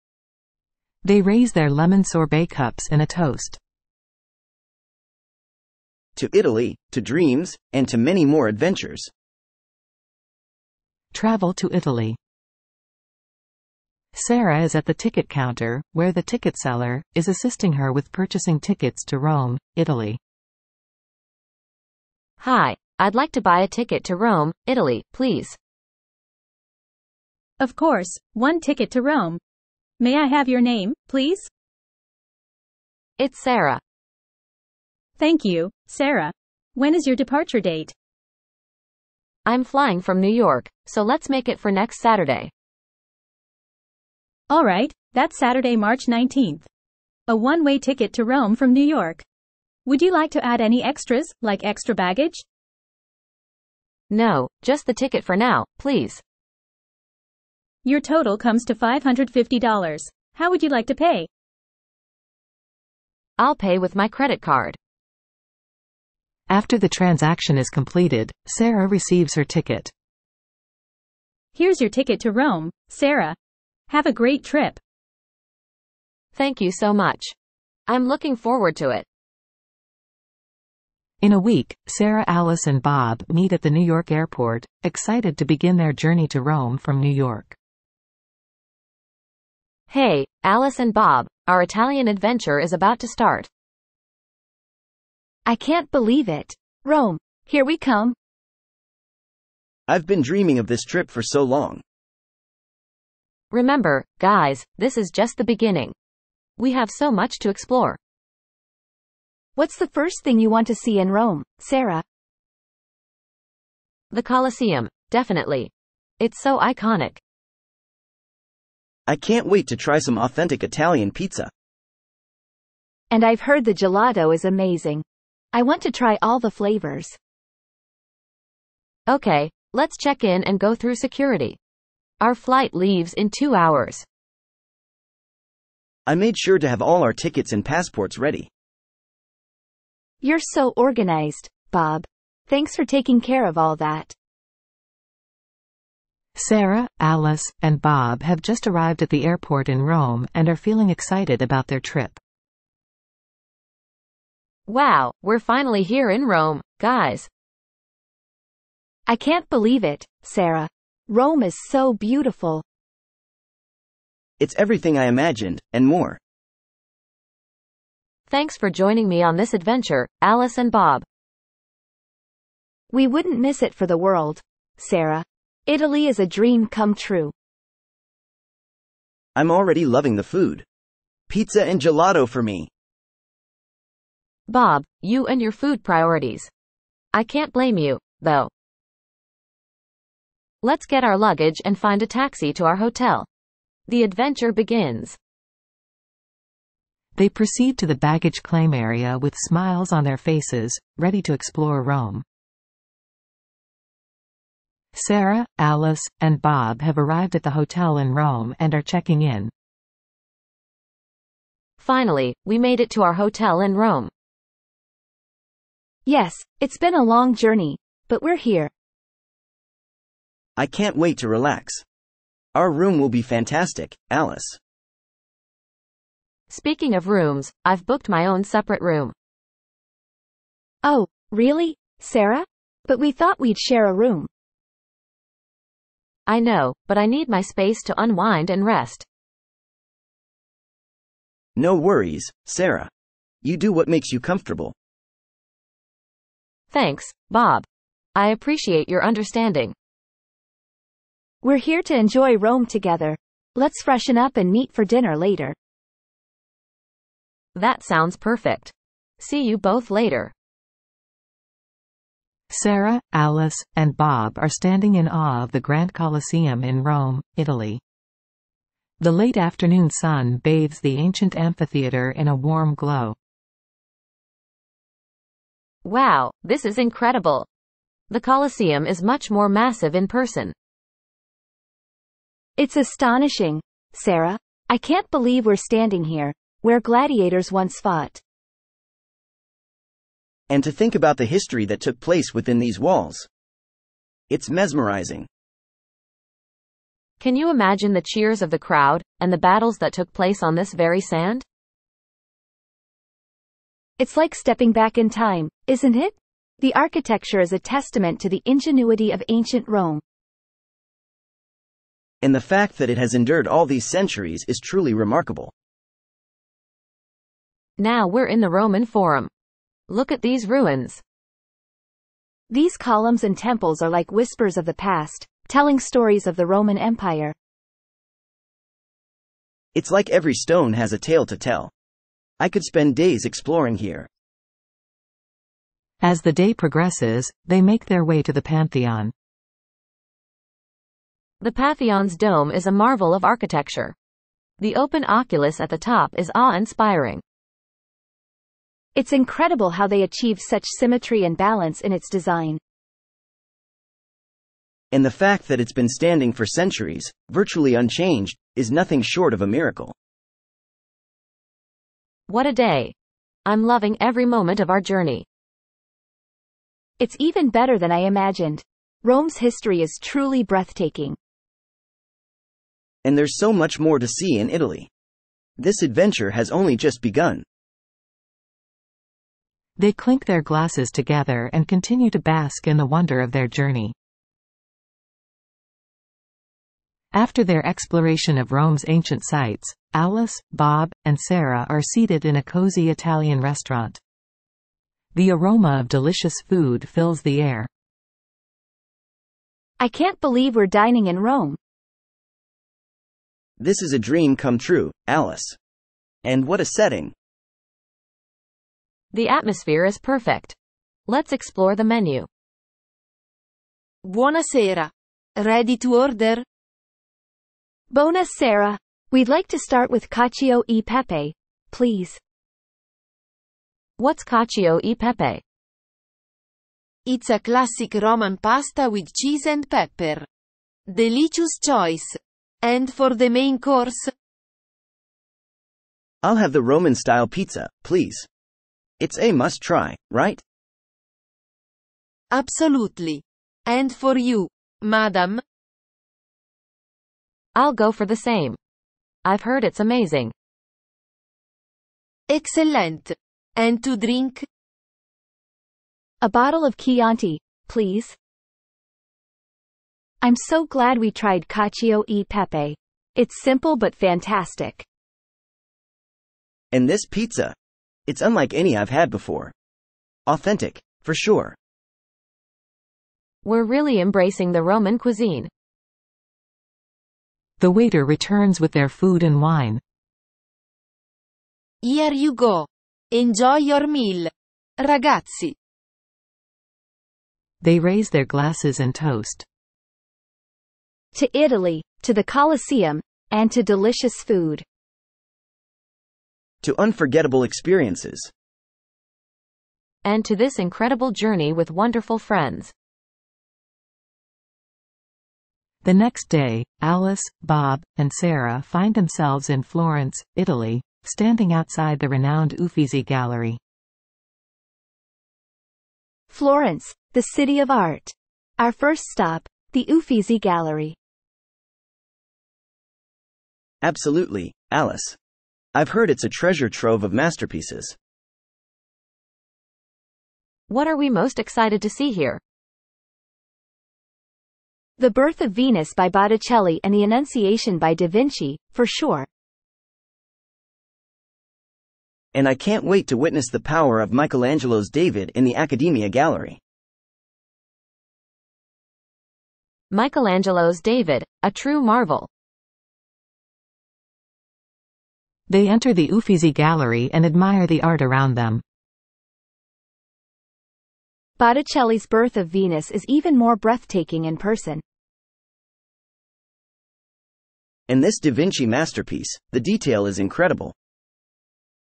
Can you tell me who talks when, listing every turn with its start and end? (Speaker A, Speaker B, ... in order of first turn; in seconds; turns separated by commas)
Speaker A: 1.1-3.6, Speaker B: 6.2-9.1, Speaker A: 11.1-12.2, Speaker A: 14.1-20.2, Speaker C: 22.4-25.6, Speaker D: 27.6-29.4, Speaker D: 30.0-31.5, Speaker C: 33.2-33.8, Speaker D: 35.2-37.9, Speaker C: 39.5-42.5, Speaker D: 44.5-46.7, Speaker D: 47.3-49.2, Speaker D: 49.9-52.4, Speaker C: 54.1-56.2, Speaker D: 57.9-61.3, Speaker C: 63.4-64.8, Speaker A: 66.5-69.9, Speaker D: 71.5-73.4, Speaker D: 73.9-74.8, Speaker C: 76.3-77.3, Speaker C: 77.9-79.0, Speaker A: 81.2-87.6, Speaker C: 89.9-93.5, Speaker E: 95.5-98.2, Speaker B: 99.9-101.8, Speaker C: 103.5-105.9, Speaker C: 106.6-108.0, Speaker E: 109.6-112.0, Speaker C: 114.1-117.2, Speaker B: 119.1-121.5, Speaker E: 123.1-127.2, Speaker C: 129.1-131.6, Speaker C: 132.2-134.1, Speaker B: 136.1-138.5, Speaker E: 140.2-144.1, Speaker A: 146.4-152.2, Speaker C: 154.7-157.3, Speaker E: 159.1-162.6, Speaker B: 164.4-166.2, Speaker C: 168.3-171.1, Speaker E: 172.9-177.3, Speaker B: 179.4-180.7, Speaker B: 181.3-182.7, Speaker C: 184.5-186.5, Speaker C: 187.1-188.5, Speaker C: 190.6-193.3, Speaker C: 193.9-195.2, Speaker A: 197.2-202.2, Speaker A: 204.9-209.5, Speaker C: 211.8-214.1, Speaker E: 216.1-218.7, Speaker B: 220.6-221.8, Speaker B: 222.6-224.6, Speaker C: 226.5-229.1, Speaker E: 230.8-234.3, Speaker C: 236.3-239.1, Speaker B: 241.6-242.9, Speaker B: 243.4-244.8, Speaker C: 246.7-249.8, Speaker E: 251.4-255.6, Speaker C: 257.6-260.3, Speaker A: 262.5-267.8, Speaker A: 269.0-273.2, Speaker C: 275.9-277.5, Speaker C: 278.1-280.5, Speaker E: 282.6-288.2, Speaker B: 290.5-293.3, Speaker B: 294.3-295.3, Speaker C: 297.2-301.4, Speaker E: 304.0-310.0, Speaker B: 312.2-315.5, Speaker C: 317.8-319.3, Speaker C: 319.9-321.0, Speaker E: 322.5-327.4, Speaker B: 329.8-331.7, Speaker B: 332.4-334.1, Speaker A: 336.0-339.1, Speaker C: 341.4-343.9, Speaker C: 344.6-347.2, Speaker E: 349.0-352.6, Speaker B: 354.9-359.9, Speaker C: 362.3-362.9, Speaker C: 363.5-365.2, Speaker E: 367.0-371.2, Speaker B: 373.1-374.9, Speaker B: 375.6-377.4, Speaker A: 379.8-383.9, Speaker A: 387.1-394.0, Speaker A: 395.1-397.7, Speaker E: 399.8-401.6, Speaker B: 403.6-405.6, Speaker B: 406.2-407.1, Speaker C: 409.1-410.6, Speaker C: 411.1-412.3, Speaker F: 414.1-416.4, Speaker E: 417.9-422.2, Speaker C: 424.0-425.4, Speaker F: 427.1-430.3, Speaker F: 430.9-434.1, Speaker B: 436.2-438.3, Speaker B: 439.0-440.4, Speaker F: 442.3-445.4, Speaker C: 447.6-448.6, Speaker C: 449.2-450.3, Speaker F: 452.3-454.5, Speaker E: 456.2-458.2, Speaker E: 460.2-464.9, Speaker B: 466.7-467.6, Speaker B: 468.1-469.5, Speaker B: 470.3-471.6, Speaker C: 473.4-475.5, Speaker A: 477.6-479.8, Speaker F: 481.8-485.6, Speaker A: 487.6-489.4, Speaker E: 491.1-494.6, Speaker B: 496.6-498.3, Speaker C: 500.0-502.7, Speaker A: 505.8-513.6, Speaker E: 516.3-521.0, Speaker B: 523.8-525.2, Speaker B: 525.8-528.0, Speaker C: 530.7-532.4, Speaker E: 535.0-539.3, Speaker B: 542.3-546.6, Speaker C: 549.9-552.3, Speaker A: 555.5-558.6, Speaker E: 561.4-564.8, Speaker B: 567.9-570.7